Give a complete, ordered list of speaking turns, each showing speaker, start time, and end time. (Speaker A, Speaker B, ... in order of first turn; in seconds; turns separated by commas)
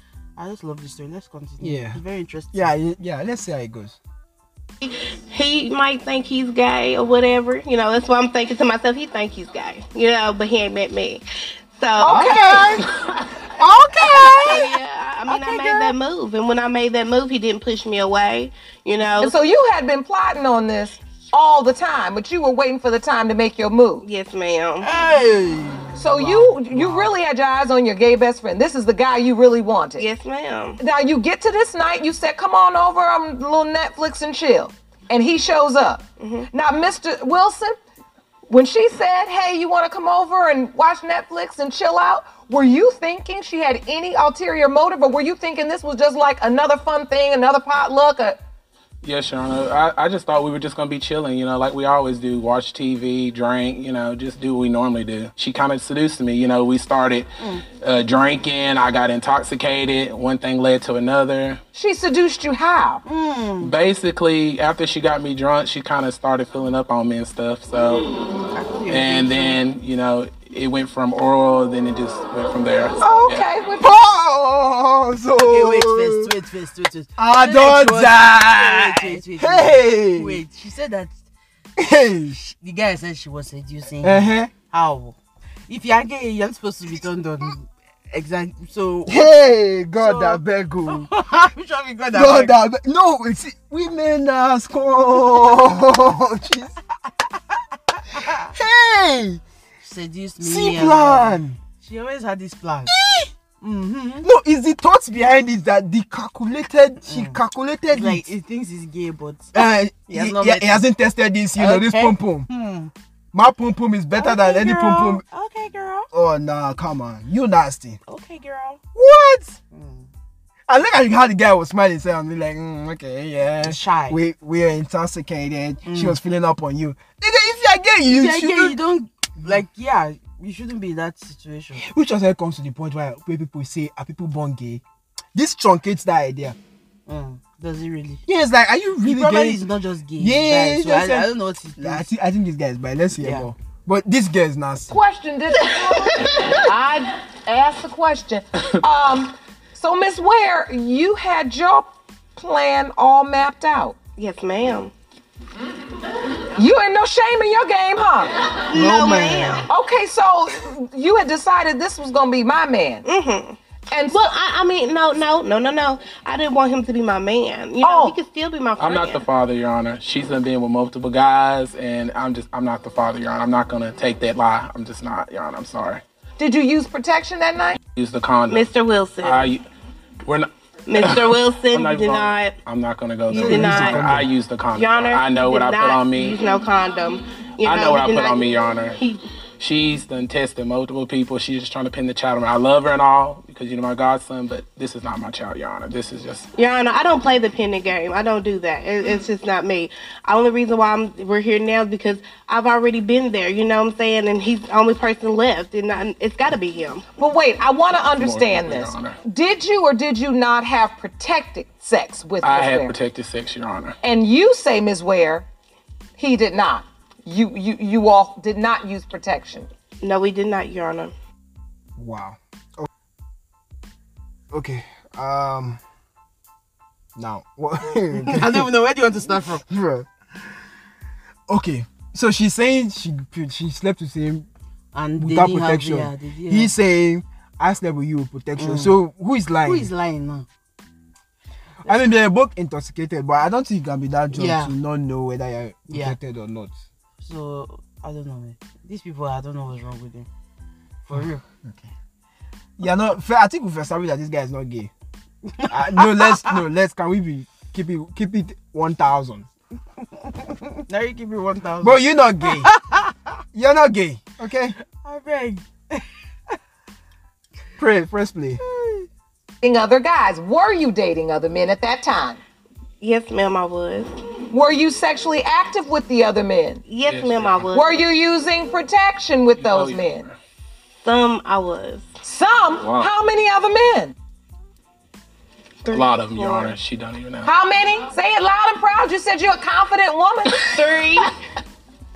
Speaker A: 0.4-2.7, Speaker B: 1.6-2.0, Speaker B: 2.5-4.0, Speaker C: 4.8-11.2, Speaker C: 11.7-12.6, Speaker D: 12.0-13.2, Speaker B: 12.0-12.8, Speaker B: 13.6-14.7, Speaker C: 14.2-19.4, Speaker A: 15.2-15.9, Speaker D: 19.2-24.0, Speaker C: 24.0-24.9, Speaker A: 24.8-27.1, Speaker D: 25.9-30.0, Speaker C: 30.0-30.8, Speaker D: 30.8-37.8, Speaker C: 36.2-36.5, Speaker D: 38.5-48.4, Speaker E: 49.0-61.6, Speaker A: 57.4-57.6, Speaker D: 61.7-63.0, Speaker A: 63.0-63.7, Speaker E: 63.6-68.1, Speaker A: 68.5-69.6, Speaker E: 68.9-73.5, Speaker D: 73.0-73.9, Speaker B: 73.8-76.3, Speaker A: 75.5-81.2, Speaker B: 77.2-80.4, Speaker B: 81.8-82.4, Speaker A: 82.3-85.2, Speaker B: 84.0-84.5, Speaker A: 85.7-89.3, Speaker B: 89.1-91.1, Speaker A: 89.9-92.5, Speaker B: 92.1-96.8, Speaker A: 97.9-98.5, Speaker B: 98.4-99.4, Speaker A: 99.8-102.9, Speaker B: 100.4-101.6, Speaker B: 102.9-103.3, Speaker A: 103.6-104.3, Speaker B: 104.2-108.3, Speaker A: 107.0-107.4, Speaker A: 107.9-110.8, Speaker B: 109.5-112.5, Speaker A: 111.5-112.9, Speaker B: 113.3-115.2, Speaker A: 114.1-116.1, Speaker B: 116.1-118.0, Speaker A: 118.1-118.8, Speaker B: 118.9-119.6, Speaker A: 119.7-120.1, Speaker B: 120.7-128.8, Speaker A: 123.6-124.2, Speaker A: 125.8-126.2, Speaker A: 128.1-131.9, Speaker B: 131.8-134.8, Speaker B: 135.3-136.6, Speaker A: 137.1-138.2, Speaker B: 138.2-139.6, Speaker A: 139.0-142.1, Speaker B: 140.2-145.0, Speaker A: 143.2-143.5, Speaker D: 144.9-154.0, Speaker B: 145.6-146.4, Speaker C: 154.2-154.9, Speaker D: 156.6-158.5, Speaker C: 158.7-159.7, Speaker B: 158.7-159.6, Speaker D: 159.7-163.0, Speaker C: 163.0-169.2, Speaker D: 163.9-164.2, Speaker D: 167.8-168.2, Speaker E: 168.8-176.0, Speaker D: 176.4-177.8, Speaker E: 177.9-178.7, Speaker C: 178.5-179.5, Speaker E: 179.2-179.6, Speaker E: 180.2-186.4, Speaker C: 180.9-182.5, Speaker C: 183.3-189.2, Speaker B: 183.3-184.3, Speaker E: 187.6-189.0, Speaker E: 189.6-196.5, Speaker C: 196.6-207.1, Speaker D: 207.2-212.9, Speaker E: 208.2-209.2, Speaker E: 212.4-213.9, Speaker D: 214.0-215.4, Speaker D: 216.2-219.7, Speaker C: 220.0-221.1, Speaker B: 222.0-222.9, Speaker B: 224.5-225.8, Speaker B: 227.2-228.7, Speaker A: 228.2-229.6, Speaker B: 229.7-230.1, Speaker B: 231.5-234.5, Speaker A: 234.9-236.7, Speaker B: 235.2-239.9, Speaker A: 238.6-238.9, Speaker A: 239.6-240.4, Speaker B: 241.8-246.7, Speaker A: 244.3-244.7, Speaker A: 245.9-246.2, Speaker A: 247.2-250.3, Speaker A: 251.0-251.4, Speaker B: 251.1-251.9, Speaker B: 252.8-254.9, Speaker A: 255.5-256.5, Speaker B: 255.7-259.5, Speaker A: 260.2-263.3, Speaker B: 261.8-262.7, Speaker B: 263.5-264.7, Speaker A: 264.9-266.6, Speaker B: 267.8-268.6, Speaker A: 268.6-269.1, Speaker D: 269.6-272.4, Speaker C: 273.0-274.1, Speaker D: 274.5-276.8, Speaker C: 276.9-278.0, Speaker E: 277.0-277.6, Speaker D: 277.7-280.3, Speaker E: 279.6-280.3, Speaker C: 281.0-282.1, Speaker D: 282.2-284.1, Speaker E: 282.8-283.1, Speaker C: 285.8-286.7, Speaker E: 285.9-287.5, Speaker D: 287.4-290.7, Speaker C: 290.6-291.4